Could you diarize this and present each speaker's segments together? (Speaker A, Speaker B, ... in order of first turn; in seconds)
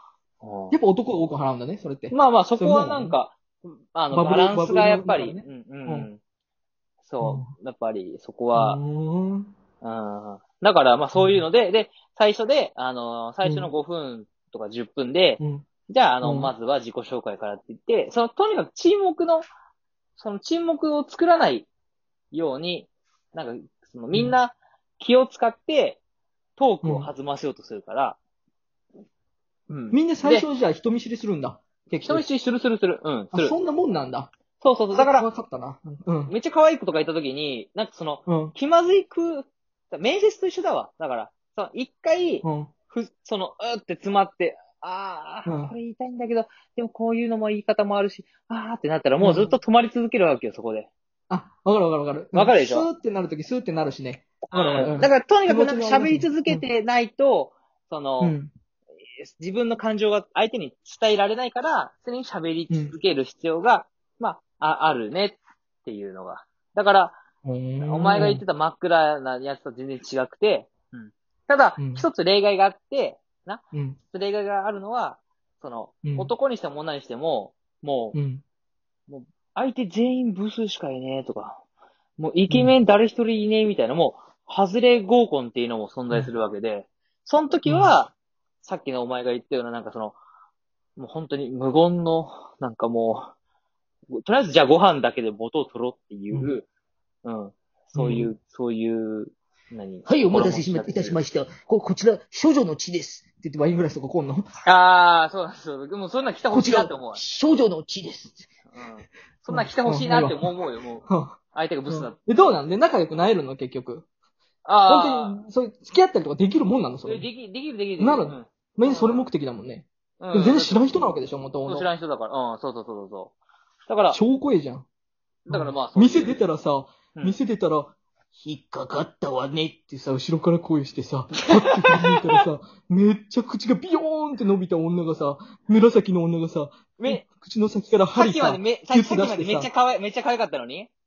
Speaker A: 0.4-0.8, 2.1-6.2, 7.0-8.8, 9.8-19.4, 20.2-21.7, 22.3-26.0, 26.6-28.2, 29.7-30.5, 32.0-33.6, 34.6-35.3, 36.3-50.9, 52.3-52.9, 54.5-58.4, 59.2-67.2, 67.8-78.2, 79.1-81.6, 82.2-90.2, 91.0-93.3, 94.1-96.7, 97.2-101.2, 104.7-107.2, 108.7-112.6, 114.7-115.4, 117.0-119.3, 120.2-123.3, 123.9-124.2, 125.5-126.4, 131.7-132.4, 137.0-137.3, 138.1-140.9
Speaker B: 0.7-3.2, 4.1-6.1, 7.2-7.5, 8.6-9.5, 11.2-11.4, 13.4-13.7, 15.4-15.7, 16.2-16.5, 24.1-24.4, 26.8-27.1, 29.9-32.2, 33.3-34.3, 34.9-36.3, 38.3-38.5, 42.4-42.7, 45.5-45.7, 49.2-49.6, 51.3-56.7, 58.2-58.5, 67.5-68.4, 71.8-72.1, 73.7-74.0, 76.0-76.3, 78.1-78.4, 82.5-82.8, 87.7-88.0, 98.0-98.3, 100.1-104.5, 106.5-108.4, 109.5-110.5, 111.1-114.1, 114.9-117.3, 118.0-121.9, 124.1-124.9, 125.5-139.7